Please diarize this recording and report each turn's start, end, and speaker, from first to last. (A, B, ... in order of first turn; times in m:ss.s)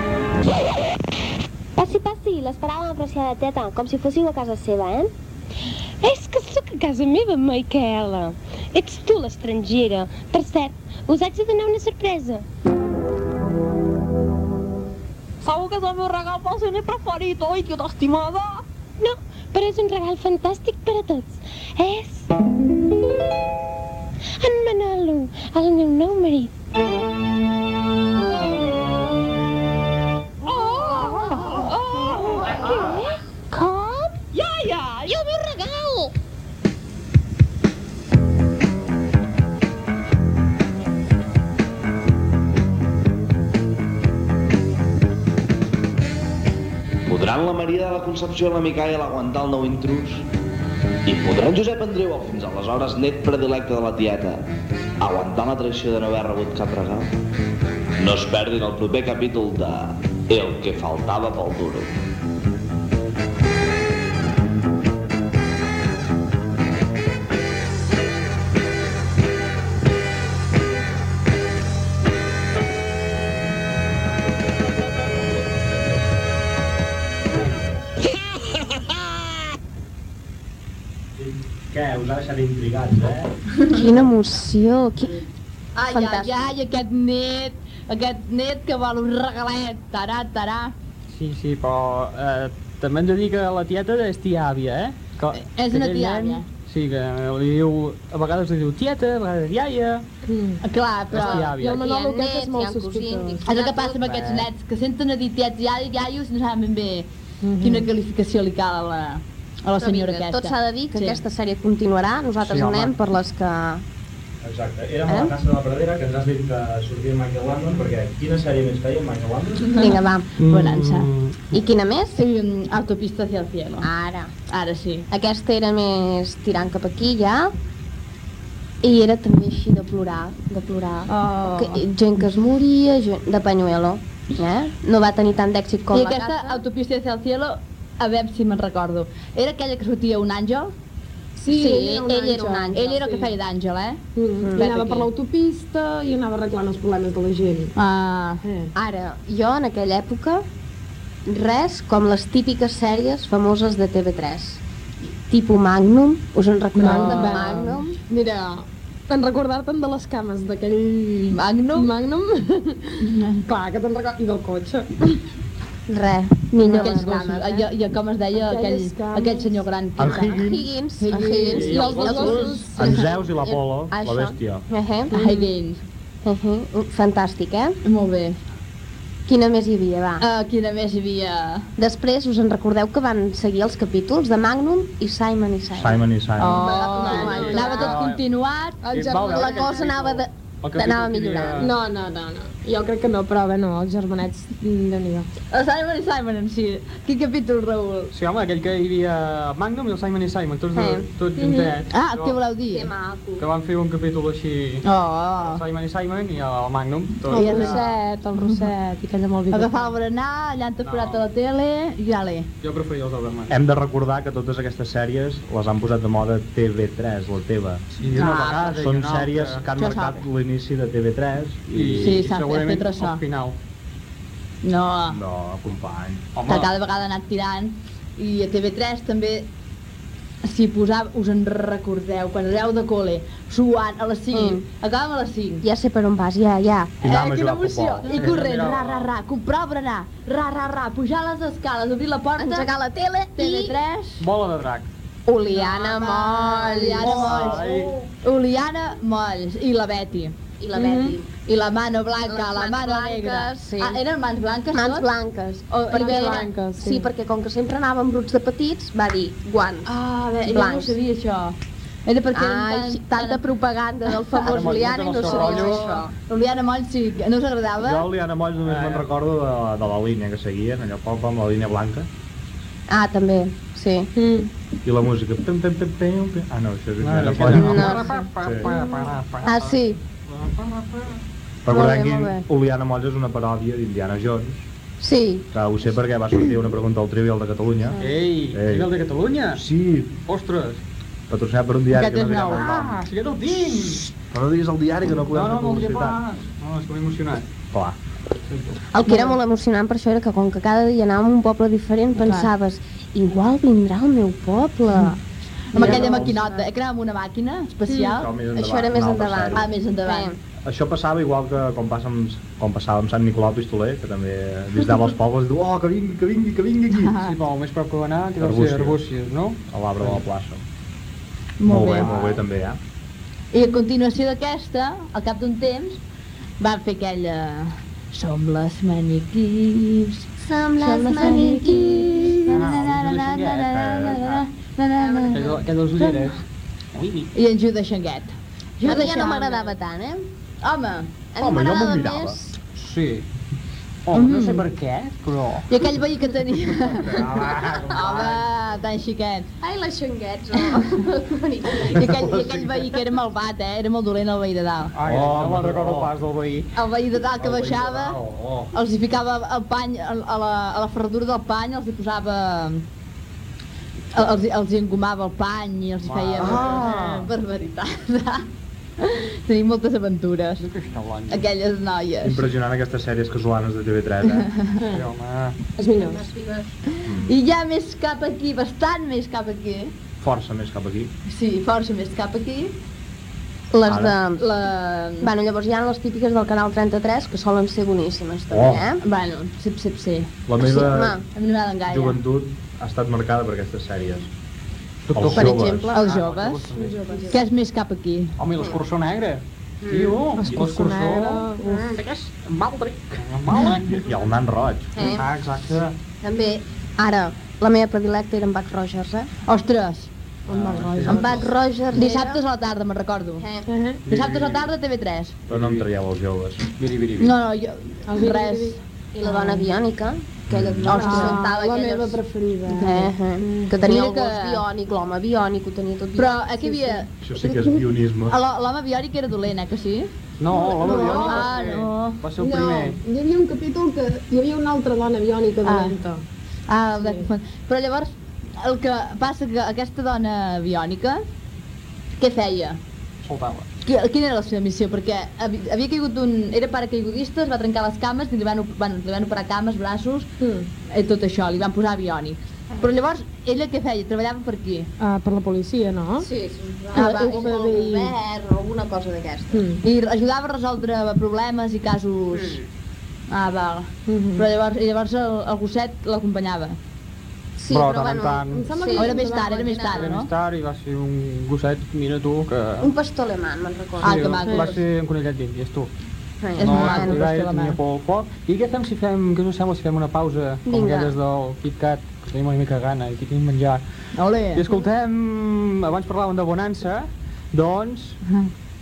0:01.8-0:05.1 A
0:06.0-0:12.4 A
0:15.4-0:18.6 B
0:19.0-0:22.2 A
0:24.4-0:26.5 A
0:30.4-0:33.0 B
0:32.7-0:34.2 A
0:34.3-0:36.1 B
0:47.0-0:50.3 C
0:51.0-0:54.4 C
0:55.0-0:57.1 C
0:58.0-1:01.9 C
1:21.2-1:23.3 D
1:23.6-1:25.2 E
1:25.8-1:30.7 F
1:25.9-1:26.5 E
1:31.1-1:40.0 G
1:35.3-1:36.4 F
1:40.2-1:40.6 H
1:40.6-1:41.5 F
1:41.1-1:41.8 G
1:41.4-1:43.5 H
1:41.6-1:44.1 E
1:43.4-1:47.1 F
1:44.1-1:44.4 G
1:47.4-1:47.9 H
1:47.6-1:51.2 F
1:49.8-1:53.8 E
1:52.4-1:53.0 G
1:54.4-1:59.8 D
1:55.0-1:55.3 E
1:59.7-2:00.3 E
2:00.4-2:01.4 G
2:00.4-2:01.1 F
2:01.5-2:02.2 E
2:02.2-2:03.9 F
2:03.8-2:04.3 E
2:04.5-2:05.1 F
2:05.1-2:07.5 E
2:08.8-2:16.6 E
2:11.1-2:11.7 H
2:15.9-2:20.7 F
2:21.4-2:23.3 H
2:21.5-2:23.0 E
2:22.7-2:24.0 F
2:24.2-2:27.7 H
2:24.4-2:25.0 E
2:27.7-2:28.4 F
2:28.4-2:28.7 H
2:28.7-2:30.4 E
2:31.2-2:34.6 E
2:35.3-2:38.0 E
2:36.8-2:37.6 F
2:36.8-2:45.2 H
2:41.3-2:41.9 F
2:43.0-2:43.4 F
2:45.9-2:47.7 E
2:46.6-2:50.3 F
2:48.4-2:49.6 H
2:50.0-2:50.7 D
2:50.0-2:55.1 E
2:51.0-2:53.0 F
2:51.3-2:53.0 H
2:51.5-2:52.4 G
2:52.7-2:54.6 D
2:55.1-2:55.5 H
2:55.1-2:55.8 F
2:56.2-2:57.8 E
2:57.8-2:58.4 F
2:59.2-3:00.2 E
3:00.2-3:01.7 F
3:01.8-3:08.0 E
3:05.8-3:06.7 D
3:06.4-3:08.8 F
3:06.5-3:07.9 H
3:07.3-3:08.2 G
3:08.8-3:09.8 H
3:08.9-3:11.7 G
3:09.3-3:11.7 E
3:11.6-3:15.3 H
3:15.5-3:18.1 F
3:18.1-3:22.4 G
3:20.7-3:21.0 E
3:21.4-3:21.7 H
3:21.9-3:22.9 F
3:22.7-3:23.4 E
3:23.4-3:24.8 G
3:24.8-3:25.6 F
3:25.4-3:27.8 G
3:27.3-3:30.0 H
3:27.3-3:27.8 F
3:28.4-3:28.6 F
3:29.5-3:32.5 F
3:30.8-3:31.3 G
3:32.6-3:33.6 G
3:33.5-3:42.2 D
3:38.0-3:39.6 G
3:38.2-3:38.7 F
3:39.8-3:40.2 F
3:41.7-3:43.6 G
3:42.0-3:43.2 F
3:44.6-3:45.2 F
3:45.1-3:46.2 D
3:46.3-3:46.7 G
3:46.4-3:49.5 F
3:50.4-3:55.6 F
3:54.3-3:54.6 E
3:55.6-3:57.0 E
3:57.0-3:58.3 D
3:57.0-4:02.7 F
3:58.0-3:59.1 G
4:02.4-4:03.8 E
4:03.4-4:04.2 F
4:04.2-4:04.9 G
4:05.2-4:07.8 E
4:05.4-4:10.3 F
4:07.0-4:07.9 G
4:10.6-4:11.3 E
4:10.8-4:11.1 H
4:11.4-4:15.1 F
4:12.2-4:14.0 E
4:14.7-4:19.9 E
4:15.7-4:17.1 H
4:15.9-4:16.4 F
4:19.8-4:23.5 F
4:20.4-4:21.0 E
4:22.3-4:26.1 E
4:24.4-4:25.9 G
4:25.2-4:28.1 F
4:27.8-4:32.1 D
4:28.6-4:29.1 G
4:32.9-4:34.1 E
4:34.2-4:34.5 H
4:34.8-4:38.7 D
4:37.0-4:41.2 G
4:37.4-4:40.0 E
4:41.6-4:44.6 D
4:41.7-4:42.5 E
4:45.0-4:45.5 E
4:45.5-4:48.0 D
4:48.0-4:49.6 G
4:48.5-4:48.9 D
4:49.5-4:50.1 D
4:50.2-4:50.8 G
4:51.3-4:53.0 D
4:51.9-4:52.7 F
4:52.5-4:54.1 G
4:54.3-4:56.2 D
4:55.3-4:57.4 G
4:57.7-4:58.0 D
4:58.9-5:05.2 E
4:59.0-4:59.4 F
5:02.2-5:02.5 F
5:05.7-5:08.3 F
5:05.7-5:06.7 E
5:05.8-5:06.1 D
5:08.1-5:09.7 D
5:08.6-5:10.4 E
5:09.5-5:10.3 F
5:10.6-5:17.2 D
5:16.9-5:17.3 F
5:17.2-5:20.2 G
5:18.4-5:19.0 D
5:19.7-5:20.6 D
5:21.6-5:22.3 F
5:21.6-5:22.8 D
5:22.0-5:22.4 G
5:23.5-5:26.0 F
5:26.6-5:30.3 F
5:30.4-5:32.5 E
5:30.8-5:35.4 F
5:32.4-5:34.4 G
5:33.7-5:34.3 D
5:35.0-5:35.6 E
5:35.3-5:36.4 G
5:36.0-5:36.2 F
5:37.0-5:37.2 G
5:37.3-5:39.7 F
5:38.8-5:40.2 E
5:40.6-5:41.1 F
5:41.3-5:42.5 E
5:41.4-5:42.4 D
5:42.7-5:43.2 G
5:44.1-5:45.6 G
5:44.1-5:44.6 F
5:45.7-5:47.3 F
5:46.9-5:48.4 G
5:47.9-5:49.5 F
5:49.6-5:52.2 E
5:51.7-5:54.9 F
5:52.0-5:52.8 D
5:54.9-5:56.7 G
5:55.0-5:56.1 D
5:56.7-5:58.2 F
5:57.4-5:58.7 D
5:58.7-6:02.8 F
6:04.1-6:08.4 F
6:06.0-6:07.1 G
6:06.4-6:07.2 D
6:09.0-6:10.6 F
6:10.6-6:11.4 G
6:11.3-6:12.5 F
6:12.2-6:14.5 D
6:14.4-6:14.8 F
6:14.9-6:15.6 G
6:15.8-6:16.2 H
6:16.0-6:16.7 E
6:17.0-6:17.3 D
6:17.2-6:19.9 F
6:20.2-6:21.1 D
6:21.2-6:22.8 F
6:23.7-6:24.4 E
6:23.9-6:24.2 D
6:24.4-6:25.3 F
6:25.2-6:29.0 E
6:28.5-6:28.9 D
6:29.0-6:30.3 F
6:30.5-6:31.2 D
6:30.6-6:31.2 E
6:31.3-6:32.2 F
6:31.9-6:34.3 D
6:35.1-6:37.1 G
6:35.1-6:35.9 D
6:35.3-6:36.0 E
6:35.9-6:36.7 F
6:36.7-6:37.4 H
6:37.3-6:38.3 F
6:38.4-6:41.5 G
6:39.8-6:40.2 E
6:40.3-6:41.9 H
6:41.6-6:42.0 E
6:42.2-6:43.1 B
6:43.1-6:44.0 G
6:43.6-6:44.9 D
6:44.9-6:45.3 E
6:45.0-6:46.0 G
6:46.2-6:49.3 E
6:49.5-6:50.1 F
6:50.5-6:51.4 G
6:50.5-6:51.2 H
6:51.0-6:52.4 E
6:51.9-6:53.4 F
6:53.4-6:53.7 E
6:53.7-6:54.0 H
6:54.1-6:54.7 G
6:54.1-6:55.4 F
6:55.5-6:55.9 G
6:55.5-6:56.7 D
6:56.8-6:57.4 G
6:57.2-6:58.8 F
6:58.1-6:58.8 H
6:59.1-7:07.1 E
7:00.5-7:01.2 D
7:00.8-7:02.0 F
7:00.9-7:03.8 H
7:03.8-7:04.6 F
7:06.2-7:07.1 F
7:07.2-7:08.4 D
7:08.3-7:10.1 F
7:10.4-7:13.0 G
7:10.5-7:11.5 H
7:10.8-7:12.2 F
7:12.4-7:16.2 H
7:15.6-7:15.9 F
7:16.7-7:21.2 F
7:16.9-7:17.3 H
7:22.2-7:22.8 F
7:23.2-7:23.7 G
7:23.8-7:30.3 F
7:30.4-7:30.7 H
7:30.9-7:34.9 F
7:35.0-7:36.3 H
7:36.2-7:39.7 E
7:36.9-7:38.1 H
7:36.9-7:37.4 F
7:39.5-7:39.8 H
7:39.8-7:42.6 F
7:42.3-7:42.7 E
7:43.3-7:46.8 F
7:44.1-7:44.5 H
7:47.6-7:49.5 E
7:47.7-7:48.7 G
7:48.5-7:50.2 H
7:49.0-7:50.3 F
7:49.9-7:52.9 G
7:52.8-7:54.4 E
7:54.0-7:54.8 F
7:54.0-7:55.9 G
7:56.4-7:57.2 E
7:56.6-7:57.8 F
7:56.6-8:03.8 G
8:00.6-8:01.2 E
8:04.2-8:04.6 F
8:04.5-8:08.2 G